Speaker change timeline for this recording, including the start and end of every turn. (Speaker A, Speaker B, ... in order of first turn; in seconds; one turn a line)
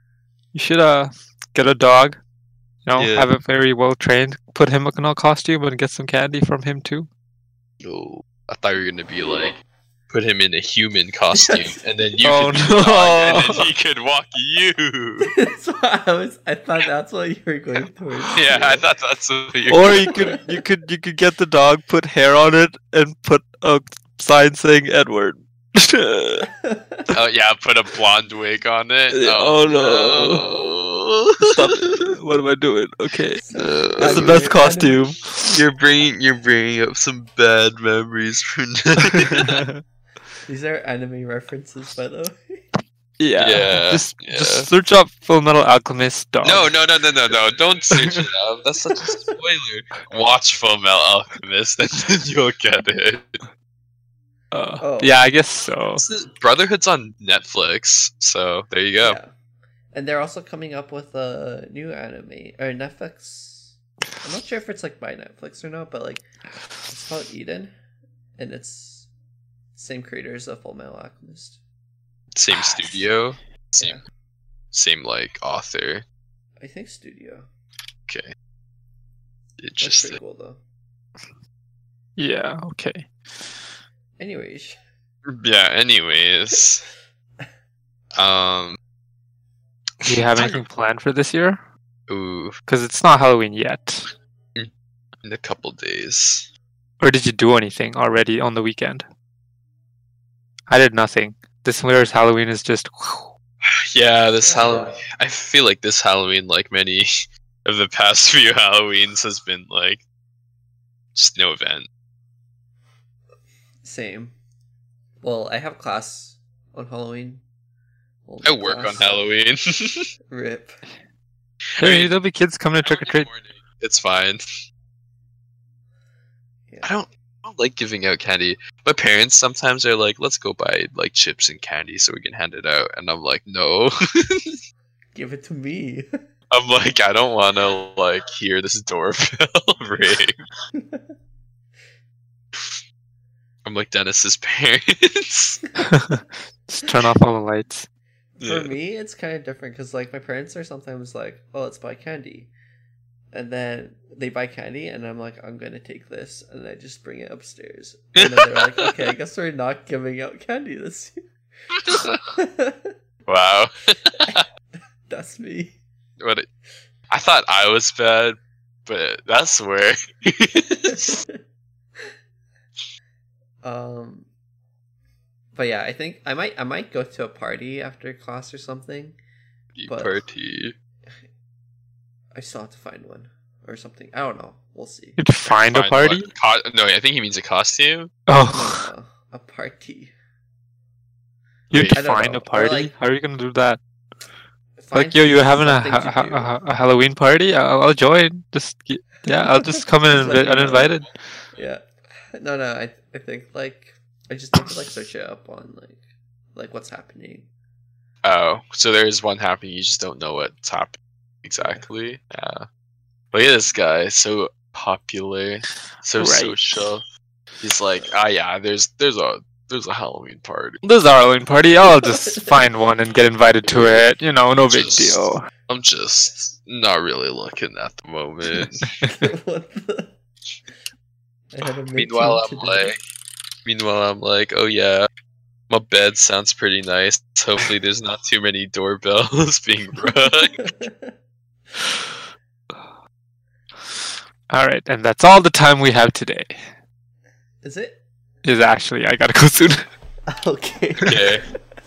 Speaker A: 0.5-2.2
Speaker A: 2.9-7.1
Speaker B: 3.0-3.3
Speaker B: 7.8-9.6
Speaker B: 10.1-15.3
Speaker C: 11.3-11.7
Speaker A: 12.2-13.7
Speaker C: 15.2-18.8
Speaker B: 18.3-20.4
Speaker A: 19.7-26.5
Speaker C: 20.2-20.5
Speaker C: 26.5-27.1
Speaker B: 27.1-32.0
Speaker A: 29.1-30.4
Speaker A: 31.4-33.4
Speaker C: 33.4-35.0
Speaker B: 33.5-34.5
Speaker A: 34.0-35.6
Speaker B: 35.5-39.6
Speaker A: 39.1-39.8
Speaker C: 40.5-42.6
Speaker A: 43.2-46.7
Speaker B: 43.4-44.7
Speaker B: 46.4-53.4
Speaker A: 48.0-48.3
Speaker A: 54.5-56.0
Speaker C: 54.8-55.1
Speaker B: 56.0-59.2
Speaker C: 59.0-59.3
Speaker C: 59.9-66.3
Speaker C: 66.9-67.7
Speaker C: 68.4-69.1
Speaker C: 69.7-71.6
Speaker B: 72.3-74.0
Speaker A: 72.5-73.0
Speaker B: 74.7-76.0
Speaker C: 76.6-77.5
Speaker B: 78.1-78.3
Speaker B: 79.6-80.2
Speaker C: 79.8-80.6
Speaker A: 82.2-83.5
Speaker C: 84.2-84.8
Speaker B: 85.2-86.8
Speaker B: 88.2-88.8
Speaker A: 90.0-91.6
Speaker B: 90.0-90.6
Speaker B: 92.1-92.6
Speaker A: 92.7-94.1
Speaker B: 95.2-96.5
Speaker A: 97.0-99.1
Speaker A: 100.7-103.3
Speaker B: 103.6-107.1
Speaker C: 104.4-105.0
Speaker B: 107.6-110.0
Speaker B: 111.1-111.9
Speaker C: 113.8-114.3
Speaker C: 115.2-117.4
Speaker C: 118.2-119.2
Speaker B: 118.4-120.1
Speaker C: 120.3-120.8
Speaker B: 121.8-122.1
Speaker A: 121.8-123.3
Speaker B: 122.8-124.5
Speaker C: 126.7-126.9
Speaker B: 126.8-134.6
Speaker C: 135.1-136.1
Speaker B: 136.5-140.4
Speaker C: 140.7-141.1
Speaker B: 142.5-142.8
Speaker B: 143.6-145.6
Speaker A: 145.8-147.9
Speaker C: 148.4-152.5
Speaker B: 148.4-148.7
Speaker C: 153.3-161.2
Speaker B: 158.1-158.9
Speaker B: 161.8-162.2
Speaker C: 162.3-162.9
Speaker B: 163.2-164.4
Speaker C: 165.1-165.8
Speaker B: 166.2-166.5
Speaker B: 167.1-171.2
Speaker C: 170.9-171.4
Speaker C: 173.6-174.3
Speaker C: 175.5-179.2
Speaker B: 179.8-180.7
Speaker C: 179.8-180.2
Speaker C: 182.3-185.2
Speaker A: 185.2-186.3
Speaker B: 185.4-188.1
Speaker A: 188.3-188.8
Speaker C: 188.4-190.1
Speaker A: 191.7-193.8
Speaker B: 191.7-192.0
Speaker C: 191.9-192.9
Speaker C: 194.8-196.5
Speaker A: 194.9-201.1
Speaker C: 200.1-201.0
Speaker C: 201.6-201.8
Speaker C: 202.3-207.5
Speaker B: 208.2-212.7
Speaker C: 211.6-211.8
Speaker B: 213.3-217.0
Speaker A: 216.2-216.8
Speaker B: 217.6-220.8
Speaker A: 220.8-225.4
Speaker C: 221.8-222.6
Speaker B: 223.6-224.1
Speaker B: 224.7-228.8
Speaker A: 228.6-229.3
Speaker C: 229.0-230.1
Speaker C: 231.5-232.9
Speaker B: 231.9-233.0
Speaker B: 233.6-235.1
Speaker B: 235.7-240.7
Speaker C: 240.5-241.1
Speaker A: 244.5-246.6
Speaker C: 247.6-248.0
Speaker A: 248.4-249.8
Speaker C: 250.3-251.2
Speaker B: 251.1-251.4